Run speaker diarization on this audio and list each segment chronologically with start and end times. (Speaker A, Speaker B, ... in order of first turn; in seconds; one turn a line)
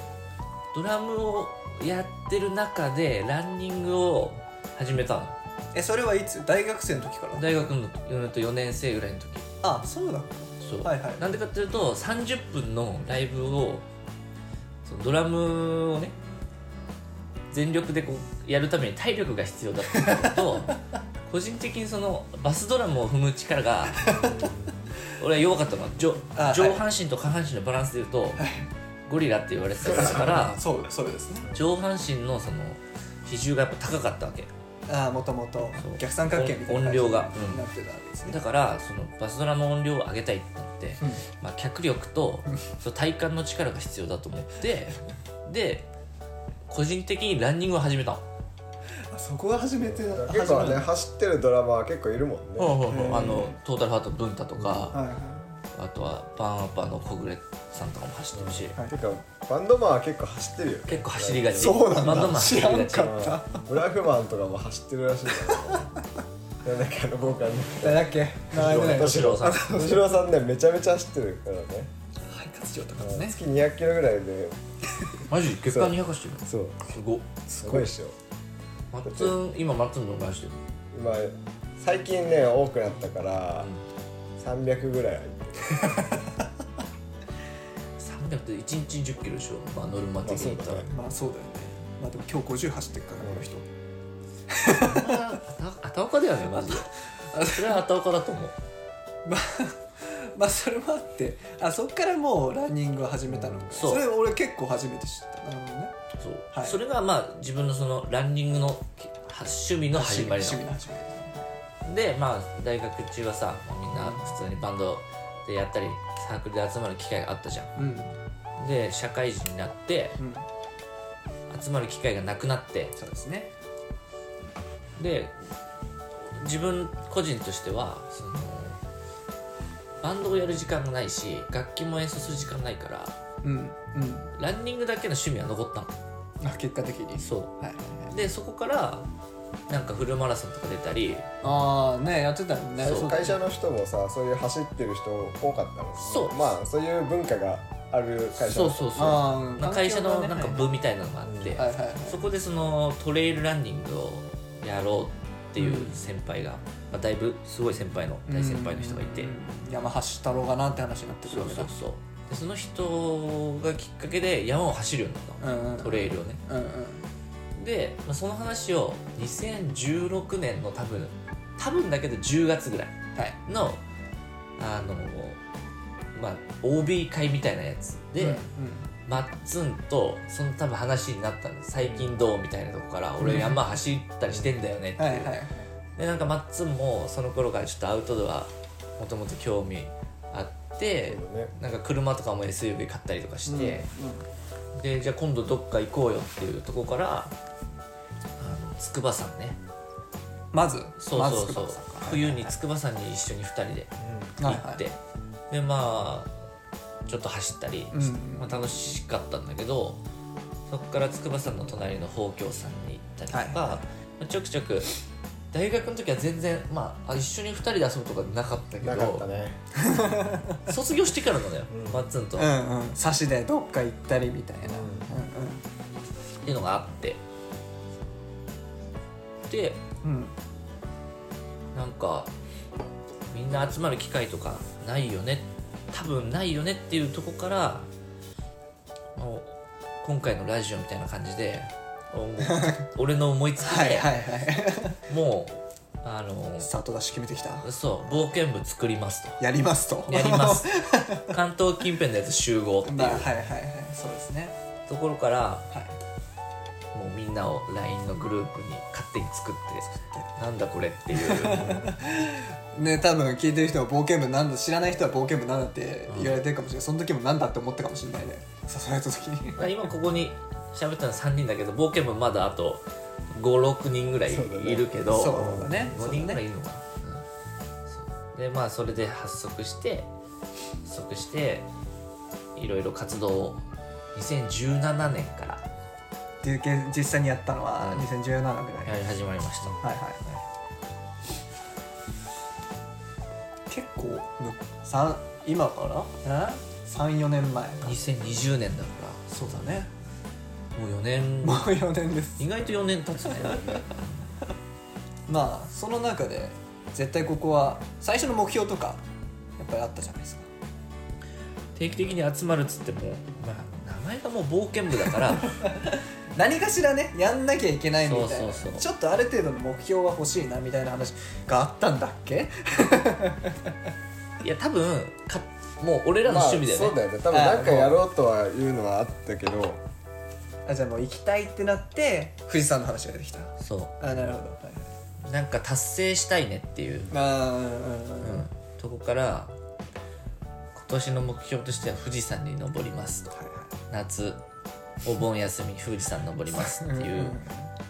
Speaker A: 0.7-5.3
Speaker B: 5.7-7.7
Speaker A: 7.3-9.5
Speaker B: 9.6-11.2
Speaker A: 10.6-13.8
Speaker A: 14.8-16.1
Speaker A: 17.5-24.1
Speaker B: 19.9-20.3
Speaker B: 24.0-24.5
Speaker A: 25.2-28.4
Speaker B: 26.3-26.8
Speaker B: 28.4-28.7
Speaker A: 29.1-30.6
Speaker B: 29.8-31.5
Speaker A: 31.5-34.5
Speaker B: 34.9-38.4
Speaker A: 35.8-37.6
Speaker A: 38.2-45.9
Speaker A: 46.7-48.2
Speaker B: 49.1-50.9
Speaker C: 50.0-53.6
Speaker A: 52.6-55.0
Speaker B: 52.9-53.5
Speaker B: 54.9-55.5
Speaker A: 55.7-58.7
Speaker C: 58.3-62.3
Speaker A: 60.9-63.3
Speaker B: 61.6-63.6
Speaker C: 62.9-65.9
Speaker C: 66.6-71.9
Speaker B: 67.8-70.0
Speaker A: 68.5-69.7
Speaker B: 72.3-73.4
Speaker C: 73.0-74.6
Speaker A: 75.3-77.9
Speaker C: 75.7-76.9
Speaker C: 77.6-78.2
Speaker A: 78.9-80.6
Speaker C: 79.0-79.3
Speaker C: 80.9-83.7
Speaker C: 84.4-86.2
Speaker A: 88.0-90.8
Speaker C: 90.2-90.9
Speaker B: 90.9-93.6
Speaker B: 94.5-95.2
Speaker A: 94.8-98.5
Speaker B: 96.5-97.8
Speaker B: 99.2-105.9
Speaker A: 103.7-104.1
Speaker A: 106.2-110.6
Speaker B: 106.5-106.8
Speaker B: 109.9-111.5
Speaker A: 111.8-117.7
Speaker B: 113.9-114.3
Speaker B: 117.8-118.1
Speaker A: 118.6-120.2
Speaker B: 120.2-120.5
Speaker A: 121.5-122.9
Speaker B: 123.0-123.5
Speaker A: 125.0-125.3
Speaker A: 126.2-128.8
Speaker A: 130.0-133.1
Speaker B: 133.4-134.3
Speaker A: 134.3-135.9
Speaker B: 136.4-138.1
Speaker A: 137.2-137.5
Speaker A: 138.1-139.1
Speaker A: 139.7-141.3
Speaker B: 141.4-143.3
Speaker C: 142.8-149.2
Speaker A: 142.8-143.2
Speaker A: 146.0-146.5
Speaker A: 148.4-159.3
Speaker B: 148.9-150.7
Speaker C: 151.2-151.6
Speaker B: 151.6-152.2
Speaker B: 155.6-156.0
Speaker B: 158.3-161.7
Speaker A: 161.2-166.4
Speaker B: 165.4-167.1
Speaker A: 167.6-173.8
Speaker A: 174.6-175.4
Speaker A: 176.1-178.4
Speaker B: 178.2-178.9
Speaker A: 179.1-185.3
Speaker B: 183.2-183.6
Speaker B: 185.0-185.5
Speaker A: 185.9-193.8
Speaker C: 191.1-191.5
Speaker B: 193.5-194.2
Speaker A: 194.7-197.3
Speaker A: 198.4-199.6
Speaker B: 200.5-202.5
Speaker A: 201.0-205.0
Speaker C: 204.0-204.3
Speaker B: 204.4-204.8
Speaker A: 205.5-206.3
Speaker A: 207.1-210.0
Speaker B: 207.9-208.6
Speaker A: 210.7-215.0
Speaker B: 213.3-213.8
Speaker A: 215.5-219.2
Speaker C: 218.8-219.6
Speaker B: 219.7-220.7
Speaker A: 220.7-222.5
Speaker C: 221.7-222.1
Speaker B: 222.4-225.6
Speaker C: 224.6-225.1
Speaker A: 226.4-227.2
Speaker A: 229.5-229.8
Speaker B: 230.0-230.3
Speaker A: 231.7-232.3
Speaker A: 233.3-237.9
Speaker A: 239.2-244.2
Speaker B: 242.4-242.8
Speaker B: 243.6-245.0
Speaker A: 245.1-246.7
Speaker B: 246.6-247.7
Speaker A: 247.6-249.4
Speaker B: 249.4-251.3
Speaker A: 250.1-250.7
Speaker A: 251.2-253.3
Speaker B: 252.8-254.5
Speaker A: 254.9-255.7
Speaker B: 255.7-256.0
Speaker A: 256.9-261.9
Speaker B: 259.8-260.3
Speaker B: 261.1-269.7
Speaker A: 266.1-266.4
Speaker A: 269.6-277.2
Speaker C: 274.3-275.9
Speaker B: 275.1-276.4
Speaker A: 277.9-280.1
Speaker A: 280.8-281.7
Speaker A: 282.6-283.6
Speaker A: 284.1-285.6
Speaker B: 286.4-289.0
Speaker A: 287.8-288.1
Speaker A: 288.8-289.8
Speaker B: 289.8-290.4
Speaker B: 293.7-298.0
Speaker A: 297.8-299.8
Speaker B: 299.3-299.9
Speaker A: 300.7-301.8
Speaker B: 301.4-302.5
Speaker A: 302.4-304.1
Speaker C: 303.3-303.9
Speaker B: 305.3-309.0
Speaker B: 309.6-310.5
Speaker A: 311.7-315.6
Speaker B: 315.4-323.7
Speaker A: 318.1-318.9
Speaker A: 324.4-327.0
Speaker C: 326.2-329.8
Speaker B: 327.3-328.0
Speaker B: 330.6-334.9
Speaker A: 333.6-333.9
Speaker A: 335.2-337.1
Speaker B: 337.1-338.5
Speaker A: 338.2-339.5
Speaker A: 340.7-343.3
Speaker B: 343.3-343.7
Speaker A: 343.9-344.4
Speaker A: 345.0-347.4
Speaker B: 346.5-347.7